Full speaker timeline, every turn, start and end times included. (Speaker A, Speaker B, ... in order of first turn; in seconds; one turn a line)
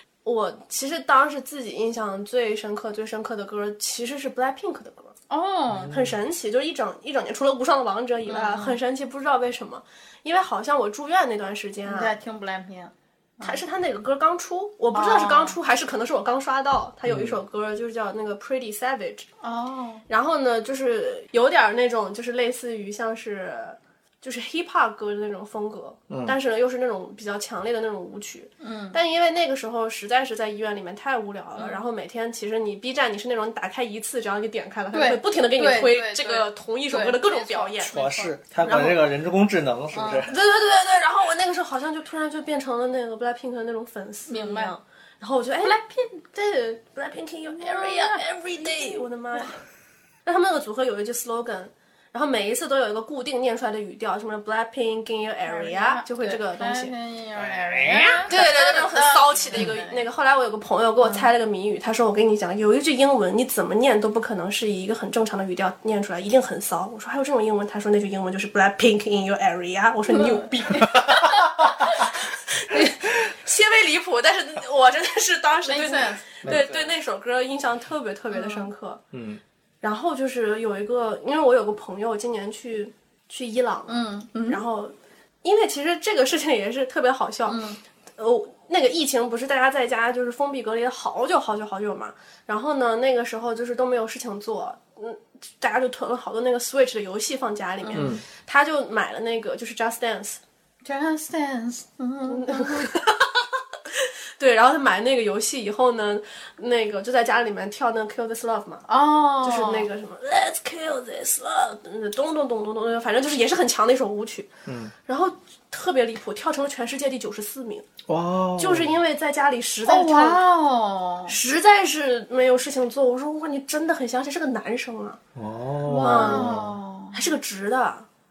Speaker A: 0.2-5.2
Speaker B: 5.3-5.9
Speaker C: 5.7-6.1
Speaker A: 5.9-12.1
Speaker B: 8.3-8.8
Speaker B: 11.8-13.6
Speaker A: 13.4-19.3
Speaker B: 14.9-15.6
Speaker C: 17.1-17.4
Speaker B: 19.4-20.0
Speaker A: 20.1-37.9
Speaker C: 26.1-26.4
Speaker B: 28.6-29.0
Speaker B: 31.6-31.8
Speaker B: 34.9-38.4
Speaker C: 37.9-40.3
Speaker A: 38.6-39.0
Speaker B: 39.9-40.3
Speaker A: 40.3-45.8
Speaker B: 44.3-44.8
Speaker B: 45.6-46.3
Speaker A: 46.3-49.6
Speaker B: 47.6-48.2
Speaker A: 50.3-56.9
Speaker B: 55.5-60.1
Speaker C: 57.4-58.4
Speaker A: 58.3-79.0
Speaker B: 61.0-61.3
Speaker B: 75.7-76.3
Speaker C: 76.5-76.9
Speaker B: 78.3-78.7
Speaker C: 79.1-79.4
Speaker A: 79.8-87.6
Speaker B: 83.9-84.6
Speaker B: 87.5-87.8
Speaker A: 88.2-100.4
Speaker B: 97.8-98.1
Speaker C: 98.0-98.2
Speaker B: 100.8-102.9
Speaker A: 102.3-103.2
Speaker A: 103.9-108.9
Speaker B: 108.9-109.9
Speaker A: 109.4-114.5
Speaker C: 114.7-114.9
Speaker A: 115.1-117.9
Speaker C: 118.1-119.0
Speaker A: 118.6-120.4
Speaker B: 119.9-121.3
Speaker A: 121.3-125.2
Speaker C: 125.3-126.8
Speaker B: 125.9-127.2
Speaker A: 125.9-126.5
Speaker A: 127.1-128.1